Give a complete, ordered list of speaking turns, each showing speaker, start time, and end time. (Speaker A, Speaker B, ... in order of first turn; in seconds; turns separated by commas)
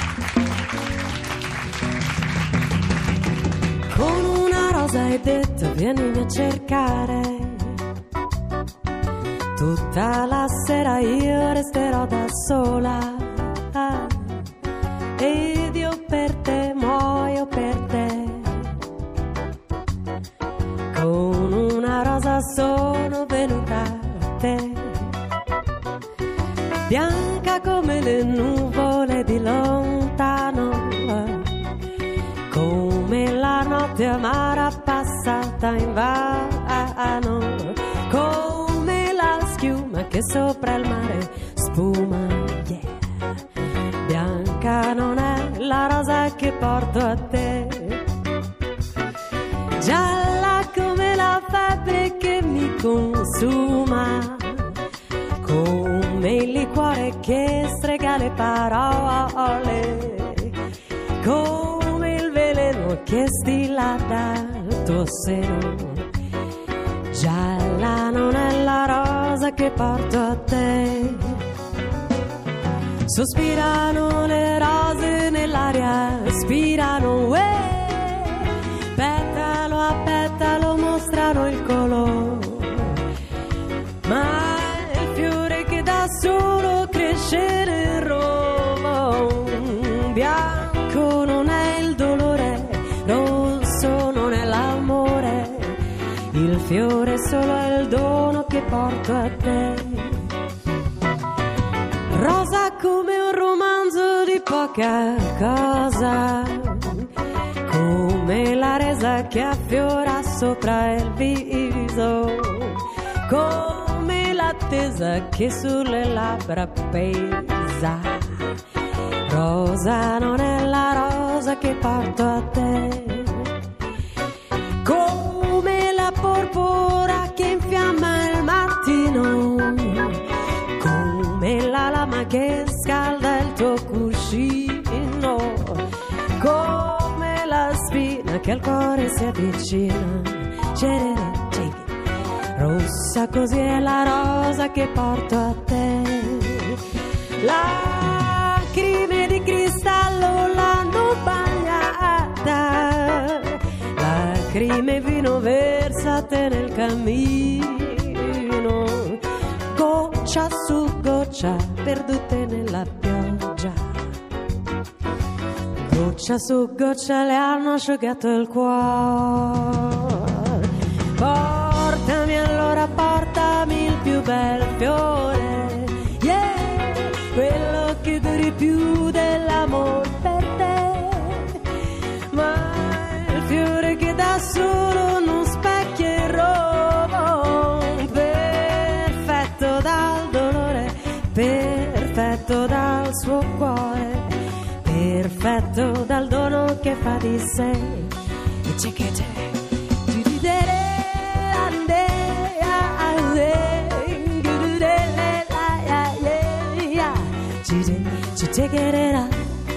Speaker A: 3.9-7.8, Speaker A: 9.6-14.4, Speaker A: 15.2-18.7, Speaker A: 20.9-25.1, Speaker A: 26.9-31.5, Speaker A: 32.5-43.0, Speaker A: 44.0-48.0, Speaker A: 49.8-54.8, Speaker A: 55.4-60.6, Speaker A: 61.2-66.1, Speaker A: 67.1-71.4, Speaker A: 73.0-83.0, Speaker A: 84.0-100.3, Speaker A: 102.1-107.1, Speaker A: 107.7-118.6, Speaker A: 119.3-123.5, Speaker A: 124.8-135.8, Speaker A: 136.4-141.9, Speaker A: 142.5-146.8, Speaker A: 147.4-164.0, Speaker A: 165.8-181.6, Speaker A: 182.3-198.1, Speaker A: 198.6-209.5